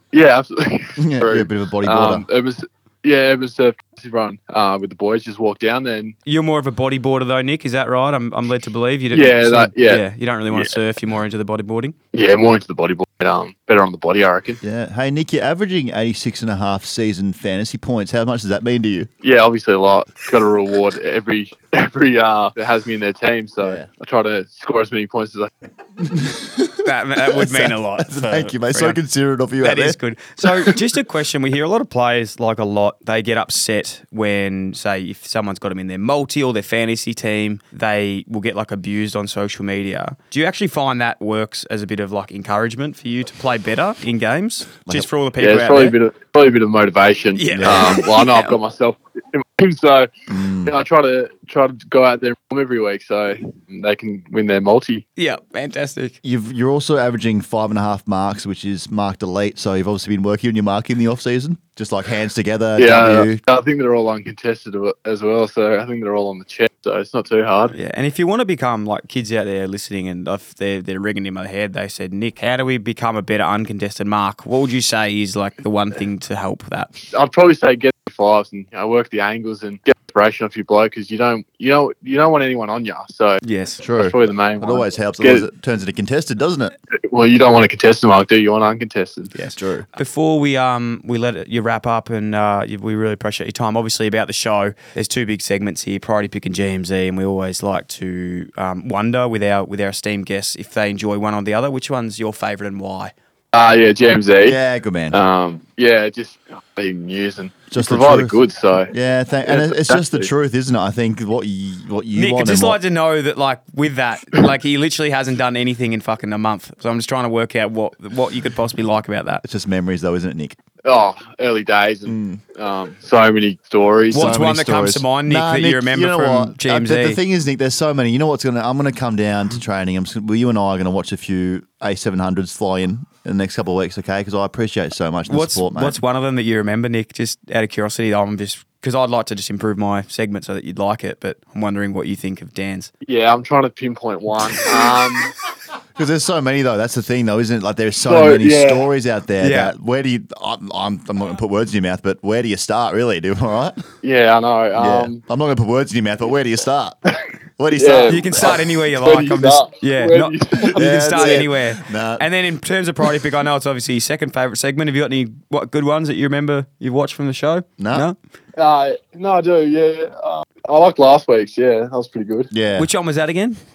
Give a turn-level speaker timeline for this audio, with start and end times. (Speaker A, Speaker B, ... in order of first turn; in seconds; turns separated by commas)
Speaker A: 0.1-6.2, Speaker B: 1.0-2.3, Speaker C: 6.3-11.9, Speaker A: 9.1-10.0, Speaker A: 12.1-14.6, Speaker B: 14.6-19.1, Speaker A: 19.2-25.5, Speaker B: 23.6-23.9, Speaker B: 26.0-30.0, Speaker C: 26.8-29.0, Speaker C: 29.6-46.0, Speaker A: 45.4-50.1, Speaker C: 47.4-48.6, Speaker B: 47.6-47.9, Speaker B: 50.3-50.8, Speaker A: 50.6-55.0, Speaker C: 55.2-56.2, Speaker B: 56.2-63.4, Speaker A: 62.8-67.8, Speaker C: 67.7-76.9, Speaker A: 77.0-83.4, Speaker C: 83.4-83.8, Speaker B: 83.8-86.7, Speaker A: 84.0-85.5, Speaker A: 87.0-89.3, Speaker C: 89.3-103.1, Speaker B: 89.5-89.9, Speaker A: 103.5-104.6, Speaker B: 104.4-105.2, Speaker A: 105.1-108.9, Speaker B: 107.7-108.4, Speaker B: 108.9-112.8, Speaker A: 109.5-110.3, Speaker C: 112.1-119.4, Speaker B: 119.4-120.6, Speaker A: 120.8-124.3, Speaker B: 122.1-122.4, Speaker C: 124.1-127.2, Speaker B: 124.1-136.0, Speaker C: 135.3-142.9, Speaker A: 143.1-145.3, Speaker B: 146.0-153.8, Speaker A: 148.1-148.9, Speaker C: 149.4-149.8, Speaker A: 154.0-155.2, Speaker B: 154.8-158.5, Speaker A: 157.7-161.4, Speaker C: 158.1-168.2, Speaker B: 160.6-162.3, Speaker B: 167.8-168.1, Speaker A: 168.6-172.5, Speaker B: 172.5-172.9, Speaker C: 172.8-173.6